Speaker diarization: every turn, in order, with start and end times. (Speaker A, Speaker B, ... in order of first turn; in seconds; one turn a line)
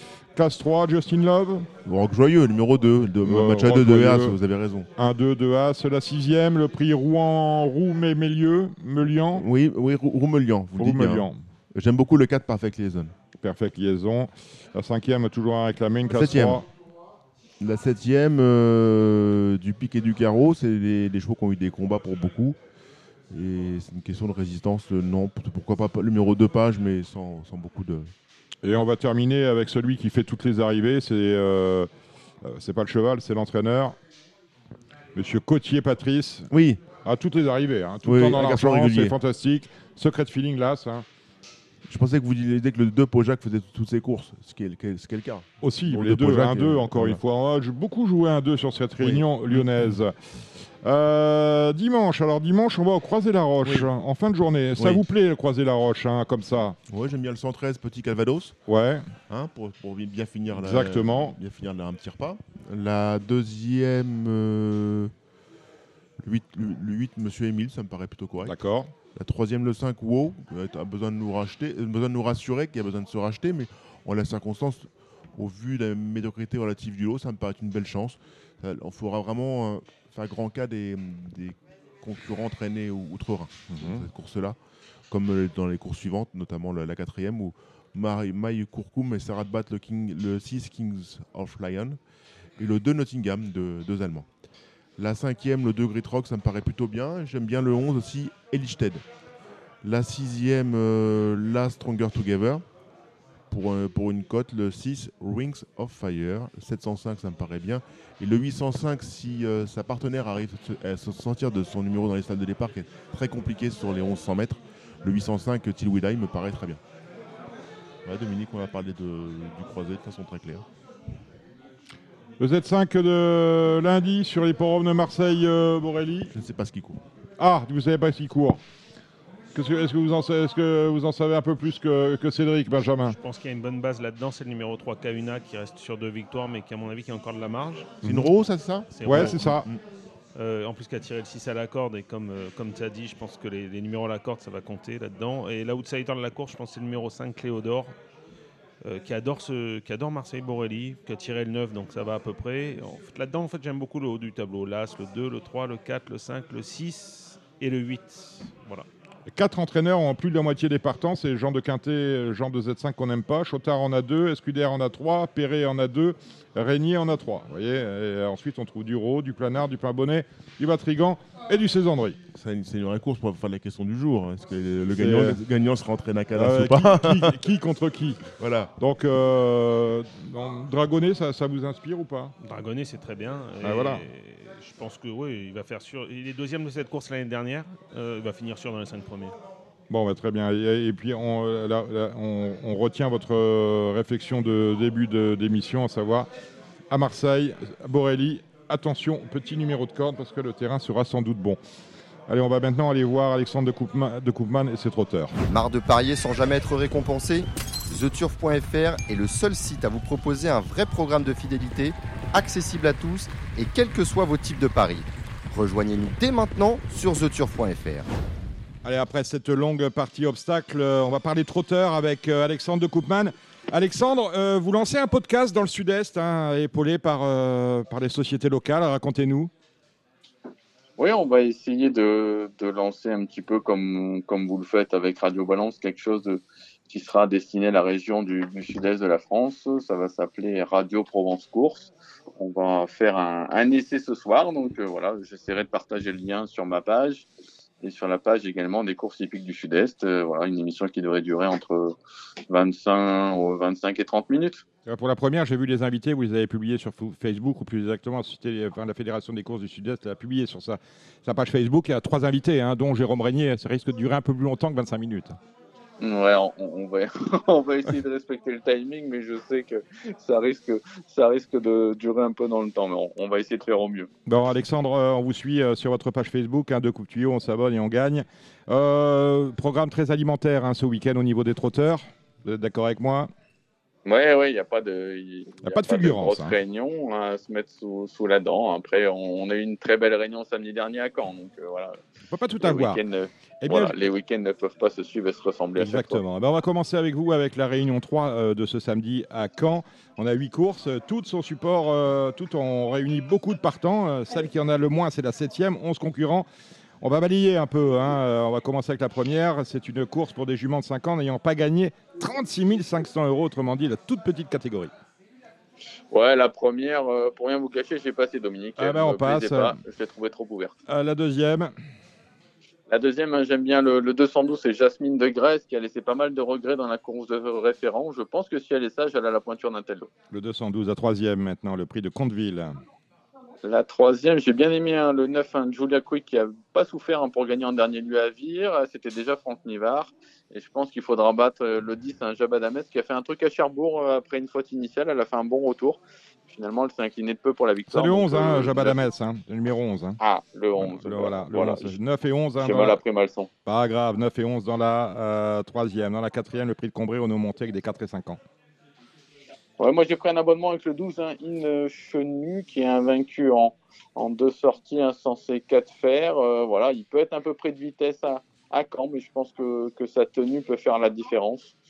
Speaker A: 0.4-1.7
Speaker B: 1.9-4.9
Speaker A: 3.2-4.4
Speaker A: 5.0-9.5
Speaker B: 9.4-13.1
Speaker A: 10.8-11.4
Speaker A: 13.4-16.7
Speaker B: 16.1-16.7
Speaker B: 17.6-22.6
Speaker B: 23.3-28.1
Speaker A: 28.6-31.9
Speaker A: 32.4-34.0
Speaker A: 35.1-41.1
Speaker B: 36.5-36.8
Speaker B: 38.0-39.1
Speaker B: 41.9-47.2
Speaker A: 45.6-50.2
Speaker B: 49.0-49.9
Speaker A: 50.8-56.8
Speaker B: 54.8-55.0
Speaker B: 56.9-58.6
Speaker A: 58.7-59.1
Speaker B: 59.3-65.1
Speaker A: 60.5-61.4
Speaker B: 66.2-68.5
Speaker A: 68.4-68.9
Speaker B: 69.2-84.6
Speaker A: 83.7-84.1
Speaker B: 85.1-92.0
Speaker B: 92.6-94.3
Speaker B: 95.0-99.0
Speaker B: 99.8-102.6
Speaker B: 103.5-116.8
Speaker B: 118.0-120.7
Speaker A: 122.4-126.3
Speaker B: 126.3-127.0
Speaker A: 127.4-128.6
Speaker A: 129.5-133.2
Speaker C: 133.2-137.9
Speaker A: 138.0-138.3
Speaker B: 138.0-139.8
Speaker C: 138.9-139.6
Speaker A: 139.0-139.7
Speaker C: 140.3-147.9
Speaker C: 148.8-158.9
Speaker A: 159.3-172.2
Speaker B: 172.3-177.4
Speaker A: 174.9-175.4
Speaker A: 176.3-178.3
Speaker B: 178.4-178.7
Speaker A: 178.8-182.3
Speaker C: 182.4-189.4
Speaker A: 183.6-184.0
Speaker A: 189.9-196.3
Speaker A: 196.9-201.6
Speaker A: 202.3-205.4
Speaker D: 205.5-218.1
Speaker A: 218.8-229.5
Speaker E: 231.0-247.3
Speaker E: 247.8-251.9
Speaker E: 252.5-254.6
Speaker A: 254.9-265.4
Speaker E: 266.0-274.1
Speaker A: 274.3-283.3
Speaker E: 284.1-292.0
Speaker A: 285.6-286.6
Speaker A: 292.3-293.0
Speaker E: 292.6-296.2
Speaker A: 293.6-294.0
Speaker A: 295.8-306.5
Speaker A: 307.0-314.9
Speaker E: 316.1-320.8
Speaker A: 318.8-319.8
Speaker A: 320.9-321.7
Speaker E: 322.9-330.1
Speaker A: 330.3-332.8
Speaker E: 333.6-349.1
Speaker A: 347.9-350.2
Speaker E: 350.2-352.0
Speaker A: 350.8-353.0
Speaker E: 352.6-353.5
Speaker A: 353.7-358.4
Speaker E: 359.8-371.8